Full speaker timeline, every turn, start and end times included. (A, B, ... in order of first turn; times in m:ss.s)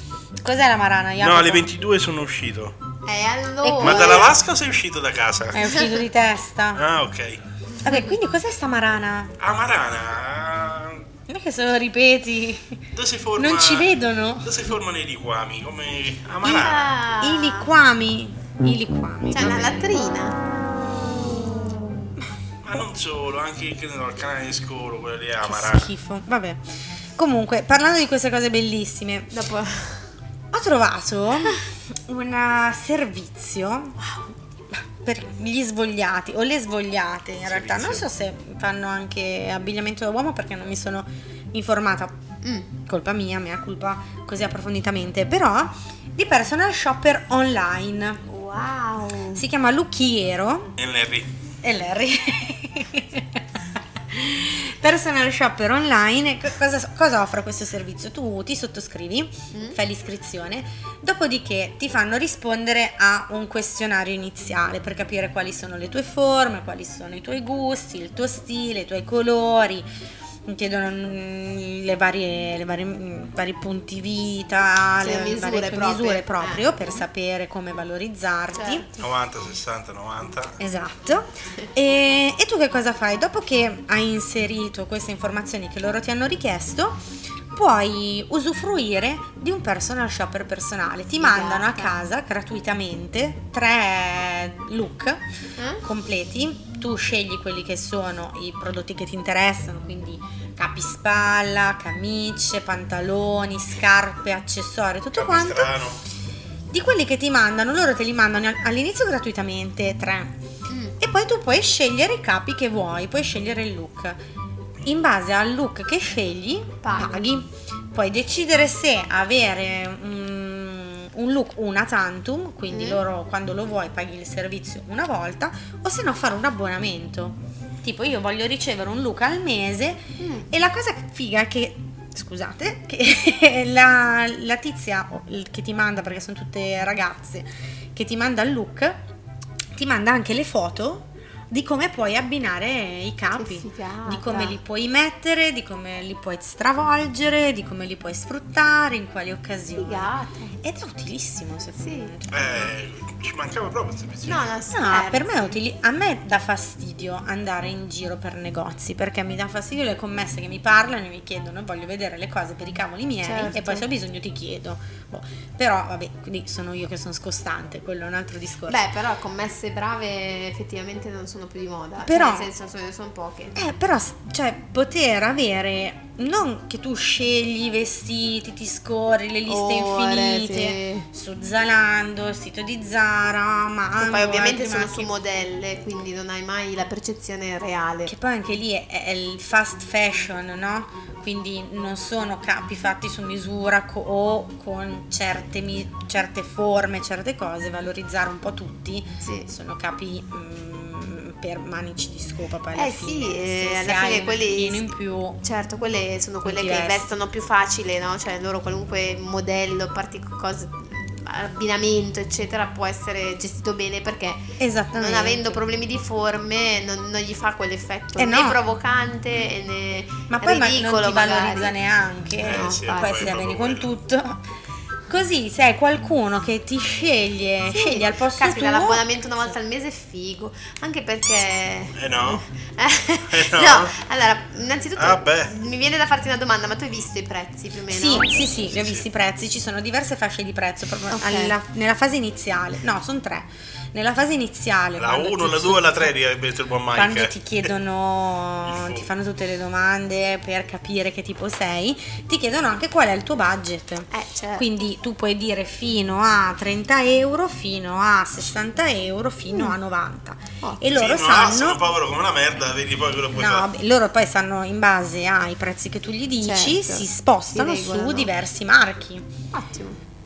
0:00.4-0:01.7 A
0:01.2-0:02.8 B
0:03.0-0:04.3 C
0:03.6-0:04.3 A
0:03.8-0:05.7 B
0:05.5-0:06.8 A
0:06.8-0:07.4 B
0:07.8-0:09.4 A
0:09.4-0:11.0 B
0:11.3-0:12.8 A
0:13.0-0:17.0 B
0:13.4-0:14.6 A
0:16.4-0:17.7 C
0:17.2-0:20.0 A
0:19.3-0:20.4 C
0:22.6-0:25.9 B
0:25.4-0:29.3 A
0:29.3-0:30.1 C
0:30.5-0:34.0 A
0:34.7-0:42.2 A
0:37.4-0:38.0 B
0:42.4-0:42.7 C
0:42.8-0:48.2 A
0:48.3-0:49.4 C
0:49.3-0:50.8 A
0:50.8-0:51.3 B
0:51.6-0:53.4 A
0:54.1-1:09.9 A
0:59.5-0:59.8 C
1:10.5-1:18.9 A
1:15.0-1:17.0 C
1:18.5-1:19.0 C
1:19.0-1:20.6 B
1:20.6-1:35.2 A
1:31.2-1:31.9 C
1:35.6-1:35.8 C
1:35.8-1:45.7 A
1:45.1-1:46.0 B
1:46.7-1:50.4 A
1:50.7-1:51.0 C
1:51.0-1:54.2 A
1:54.8-2:19.0 A
1:56.8-1:57.2 C
2:02.7-2:03.0 C
2:10.2-2:10.5 C
2:19.7-2:32.7 A
2:23.3-2:24.6 C
2:29.8-2:30.6 C
2:31.8-2:32.1 C
2:32.3-2:34.5 B
2:34.2-2:35.6 C
2:34.7-2:48.8 A
2:43.2-2:43.9 C
2:48.7-2:53.7 C
2:52.0-2:52.5 A
2:53.6-3:05.1 A
2:59.5-3:01.1 C
3:04.0-3:08.1 C
3:08.0-3:25.4 A
3:19.2-3:19.5 C
3:22.7-3:41.7 C
3:26.4-3:27.1 A
3:34.6-3:35.6 A
3:38.2-3:38.6 A
3:40.3-3:44.4 A
3:42.4-3:43.9 B
3:42.5-3:43.3 C
3:45.1-3:49.0 A
3:47.7-3:58.4 C
3:52.0-3:52.4 B
3:53.3-3:53.9 B
3:55.0-3:55.5 B
3:57.9-4:06.1 A
3:58.7-3:59.0 B
4:01.1-4:01.6 C
4:05.0-4:07.6 B
4:06.9-4:21.8 A
4:08.6-4:09.1 B
4:14.1-4:14.6 C
4:20.9-4:23.7 B
4:23.4-4:29.3 A
4:26.4-4:28.3 C
4:29.5-4:30.0 C